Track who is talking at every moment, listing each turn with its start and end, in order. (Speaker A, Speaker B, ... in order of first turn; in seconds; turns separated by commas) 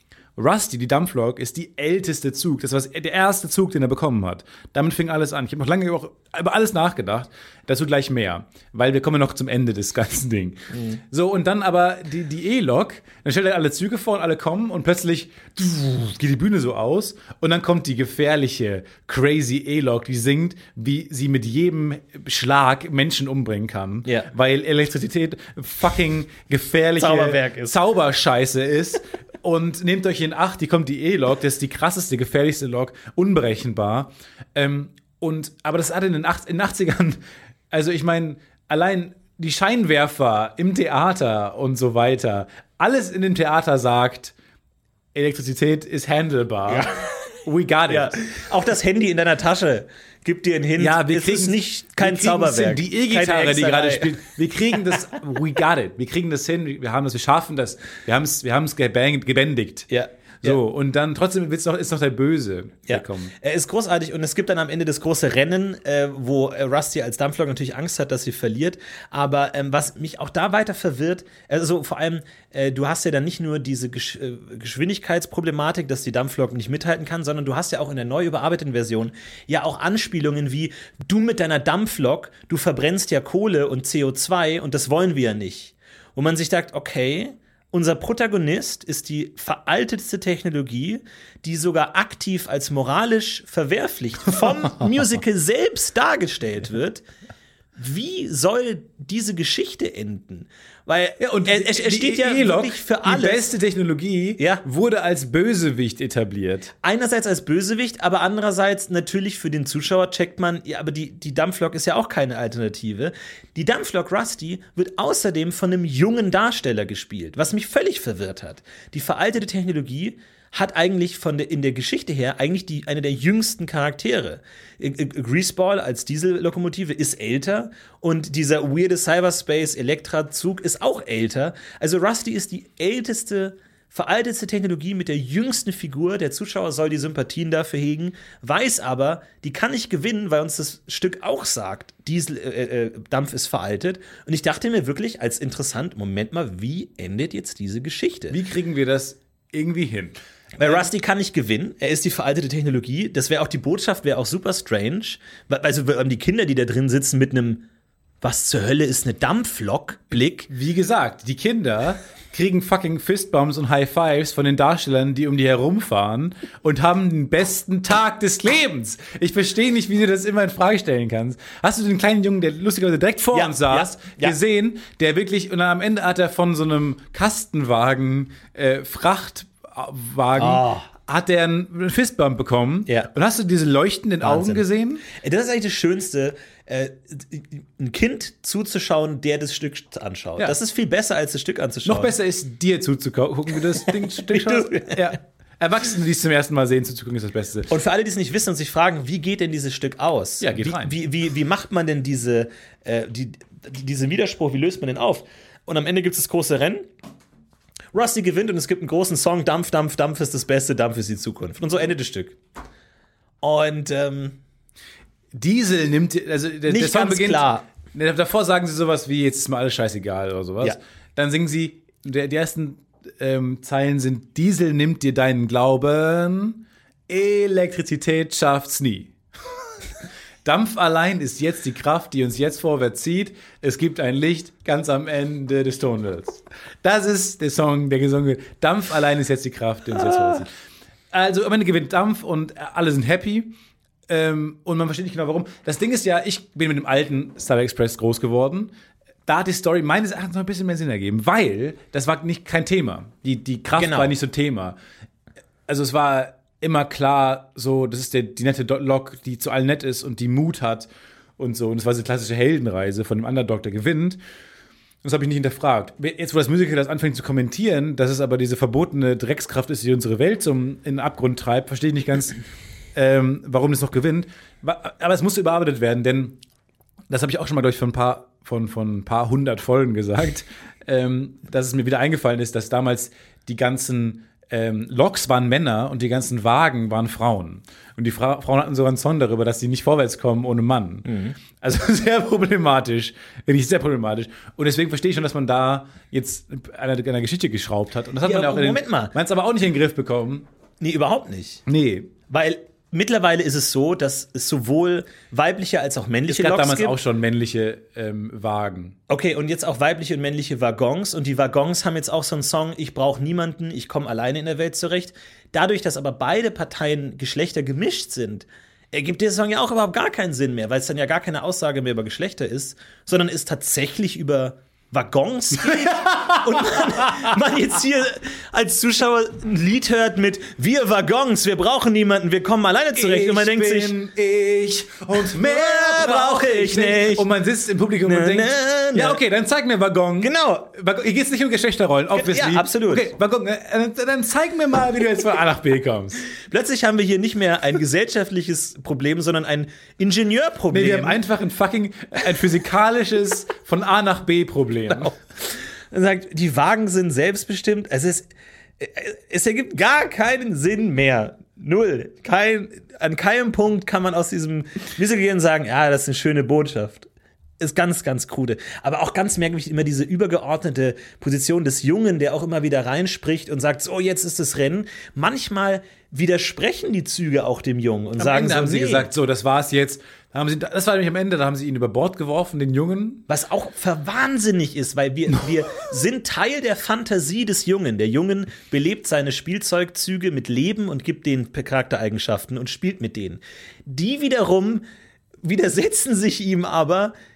Speaker A: 0.3-44.3, Speaker B: 27.0-27.8, Speaker A: 45.1-46.9, Speaker B: 46.7-47.1, Speaker A: 47.4-48.2, Speaker B: 47.9-54.2, Speaker A: 50.8-59.9, Speaker B: 59.9-60.6, Speaker A: 60.4-63.3, Speaker B: 62.9-97.0, Speaker A: 94.4-94.9, Speaker B: 97.8-103.5, Speaker A: 101.2-106.7, Speaker B: 104.4-104.6, Speaker B: 106.8-148.4, Speaker A: 148.3-150.9, Speaker B: 150.6-157.6, Speaker B: 158.2-160.5, Speaker A: 160.5-185.0, Speaker B: 173.3-174.3, Speaker B: 180.3-180.9, Speaker B: 184.2-192.1, Speaker A: 191.8-197.7, Speaker B: 194.0-195.2, Speaker B: 197.7-206.9, Speaker A: 200.4-201.0, Speaker B: 207.9-212.4, Speaker B: 213.4-214.4, Speaker A: 215.3-229.1, Speaker B: 216.7-217.7, Speaker A: 230.4-240.5, Speaker A: 241.1-243.5, Speaker A: 244.1-248.7, Speaker A: 249.3-254.8, Speaker B: 253.8-254.1, Speaker A: 255.7-264.2, Speaker A: 265.0-272.4, Speaker A: 272.9-276.4, Speaker A: 277.1-300.5, Speaker B: 291.1-291.4, Speaker B: 298.2-299.1, Speaker B: 300.8-301.6, Speaker A: 301.7-302.1, Speaker B: 302.3-307.0, Speaker A: 306.3-308.9, Speaker B: 309.1-333.9, Speaker A: 325.7-327.3, Speaker A: 332.9-346.2, Speaker B: 335.2-337.3, Speaker B: 338.0-339.2, Speaker B: 340.2-340.7, Speaker B: 342.1-343.1, Speaker B: 346.4-351.2, Speaker A: 350.7-355.1, Speaker B: 354.9-358.3, Speaker B: 358.8-367.1, Speaker B: 367.6-379.1, Speaker A: 378.2-383.2, Speaker B: 383.3-394.8, Speaker B: 395.4-397.1